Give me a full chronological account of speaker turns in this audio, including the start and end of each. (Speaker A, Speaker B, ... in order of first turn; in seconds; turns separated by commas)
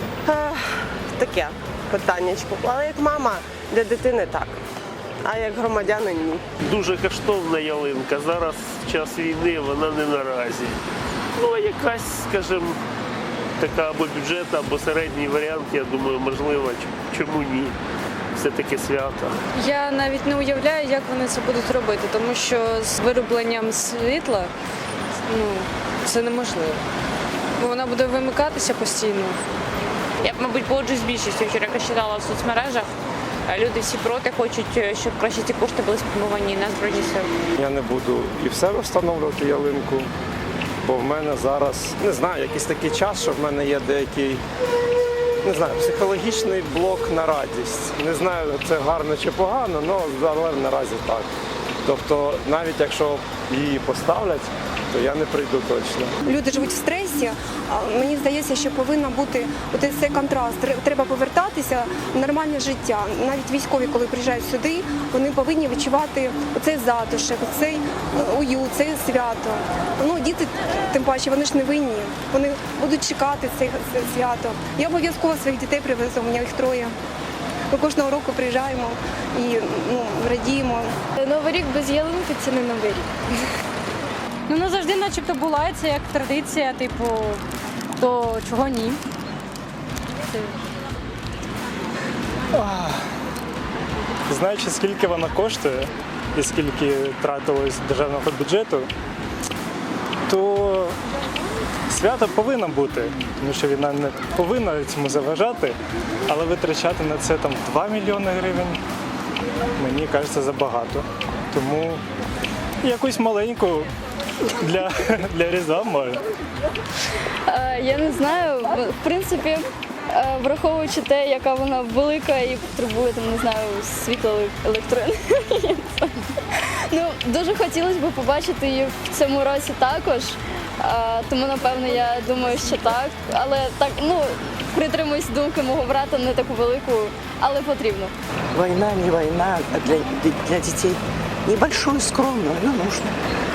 Speaker A: 0.2-4.6, Speaker A: 5.2-6.4, Speaker B: 6.7-10.8, Speaker B: 11.4-12.8, Speaker B: 13.6-17.8, Speaker B: 18.4-19.3, Speaker C: 19.6-24.5, Speaker C: 25.3-26.8, Speaker C: 27.6-29.4, Speaker D: 30.2-32.9, Speaker D: 33.5-37.3, Speaker E: 37.6-40.1, Speaker E: 40.8-44.4, Speaker E: 45.4-51.3, Speaker E: 51.8-56.1, Speaker F: 56.2-76.9, Speaker F: 77.7-83.0, Speaker G: 84.5-87.4, Speaker G: 87.9-89.0, Speaker H: 92.5-93.0, Speaker H: 94.3-98.9, Speaker H: 100.3-101.0, Speaker H: 101.9-108.8, Speaker H: 109.8-112.0, Speaker H: 112.8-113.9, Speaker H: 114.6-116.2, Speaker I: 117.5-138.1, Speaker J: 138.6-143.2